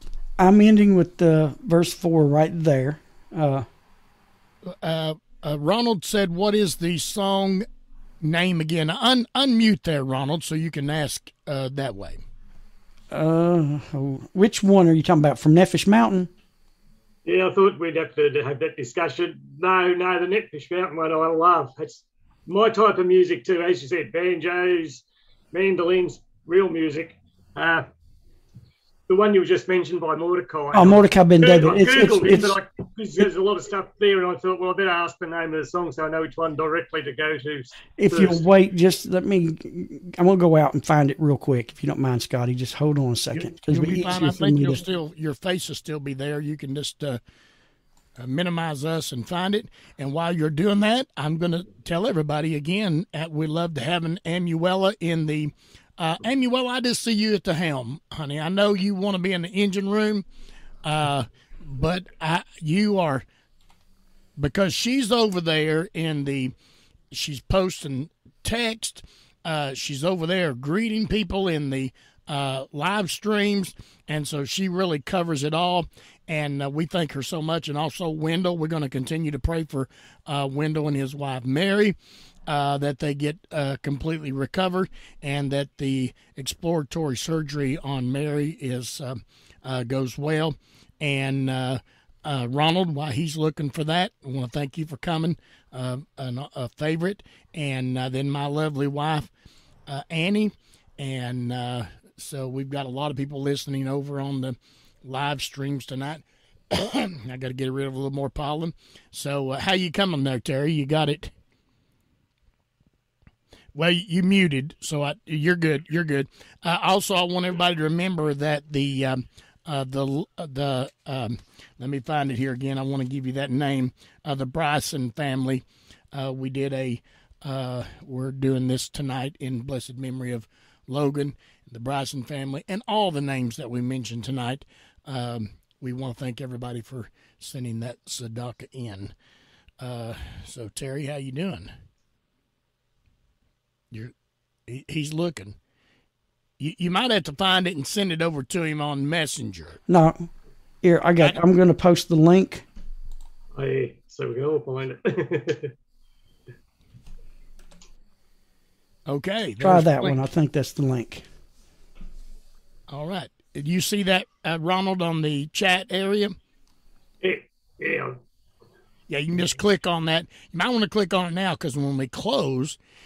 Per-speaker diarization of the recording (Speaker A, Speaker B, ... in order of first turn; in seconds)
Speaker A: 0.4-3.7, 13.1-16.3, 30.7-32.6, 38.0-44.8, 149.9-150.3, 150.8-152.7, 159.6-161.2
Speaker B: 4.7-7.7, 8.2-12.2, 43.3-47.2, 48.2-60.3, 60.8-63.3, 64.4-66.5, 67.1-82.0, 82.5-99.3, 99.9-111.3, 113.8-139.1, 139.8-141.7, 144.7-145.6, 146.6-149.8, 159.1-160.2, 162.9-166.3, 169.1-172.8
Speaker C: 17.3-27.9, 29.1-38.4, 153.6-155.7, 167.2-168.2